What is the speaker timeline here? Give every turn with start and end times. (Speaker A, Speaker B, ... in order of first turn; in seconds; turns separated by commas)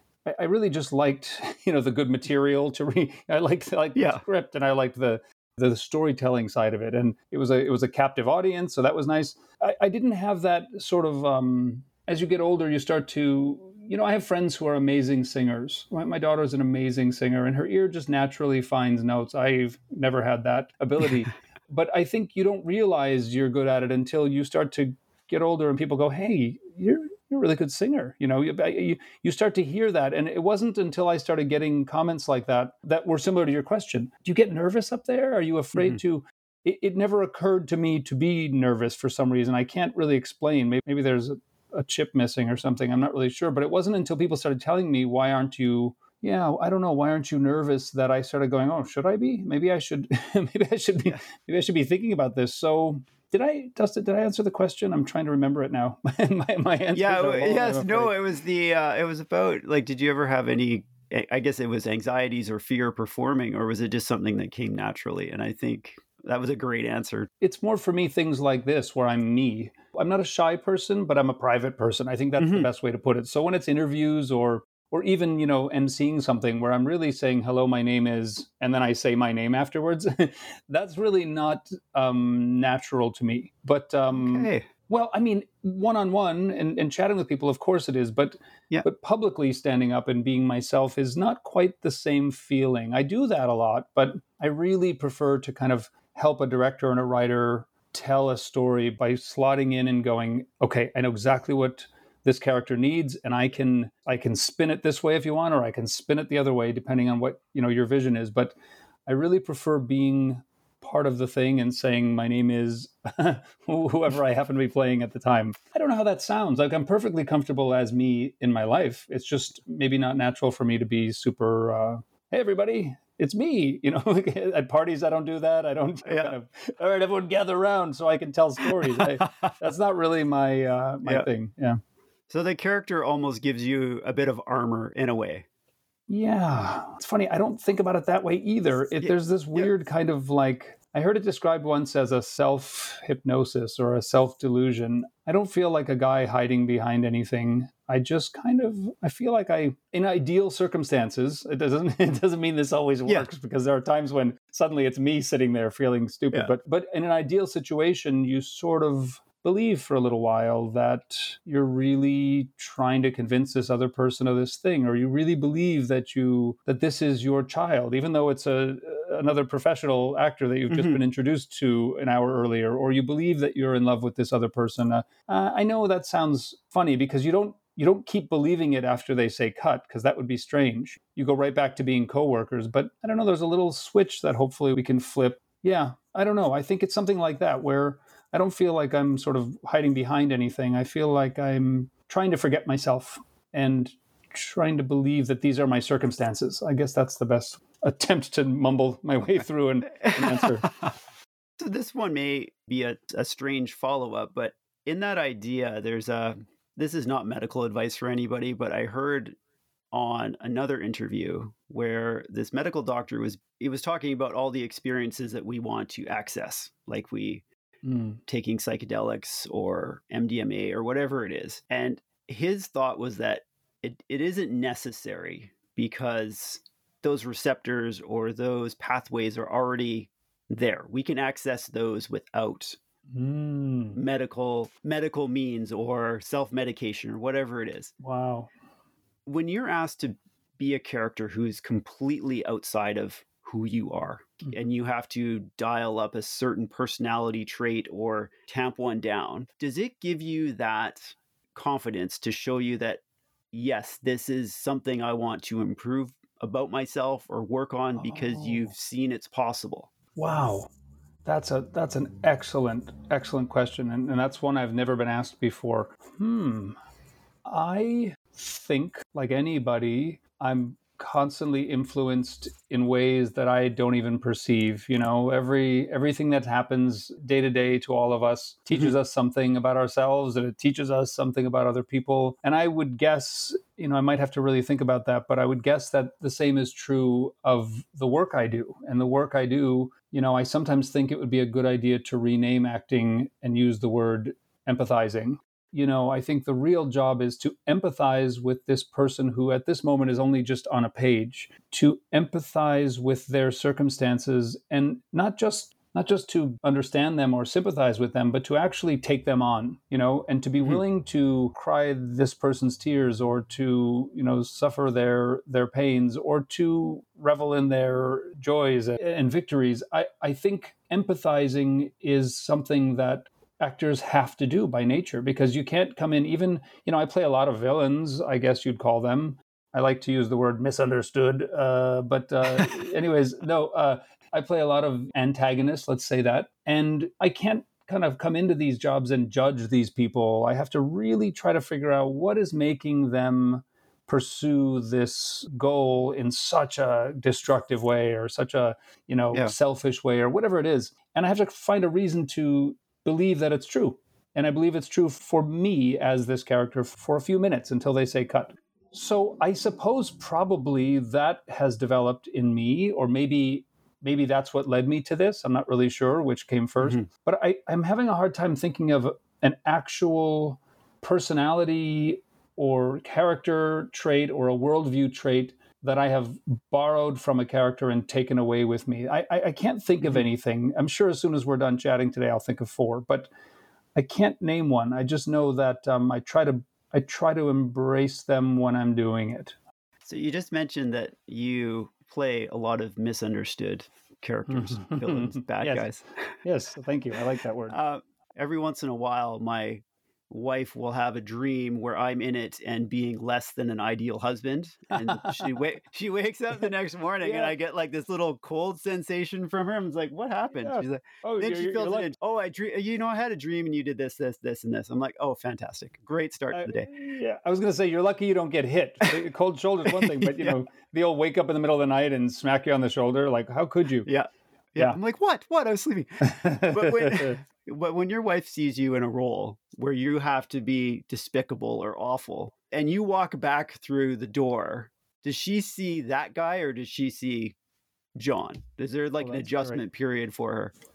Speaker A: 0.2-58.2, Speaker B: 3.9-4.2, Speaker B: 56.9-67.3, Speaker A: 67.4-108.5, Speaker B: 72.4-72.7, Speaker B: 84.1-84.7, Speaker A: 109.0-131.8, Speaker B: 126.0-126.3, Speaker B: 128.7-129.6, Speaker B: 132.3-135.4, Speaker A: 136.1-200.7, Speaker B: 139.0-139.7, Speaker B: 170.7-171.0, Speaker B: 199.9-200.9, Speaker B: 201.6-209.3, Speaker B: 209.9-217.4, Speaker A: 217.8-218.2, Speaker B: 218.2-232.8, Speaker A: 233.1-234.0, Speaker B: 233.9-237.9, Speaker A: 238.0-238.5, Speaker B: 239.2-253.0, Speaker B: 253.5-259.9, Speaker A: 257.9-258.7, Speaker A: 260.1-260.7, Speaker A: 261.2-266.8, Speaker A: 267.4-383.3, Speaker B: 366.8-367.1, Speaker A: 383.9-389.5, Speaker B: 390.0-396.3, Speaker A: 394.5-395.9, Speaker A: 396.4-397.8, Speaker B: 397.7-416.9, Speaker A: 405.0-405.5, Speaker A: 407.2-407.5, Speaker A: 410.6-412.1, Speaker A: 416.5-424.1, Speaker B: 419.9-420.6, Speaker B: 424.0-437.5, Speaker A: 426.2-427.4, Speaker B: 438.1-440.7, Speaker A: 439.2-439.8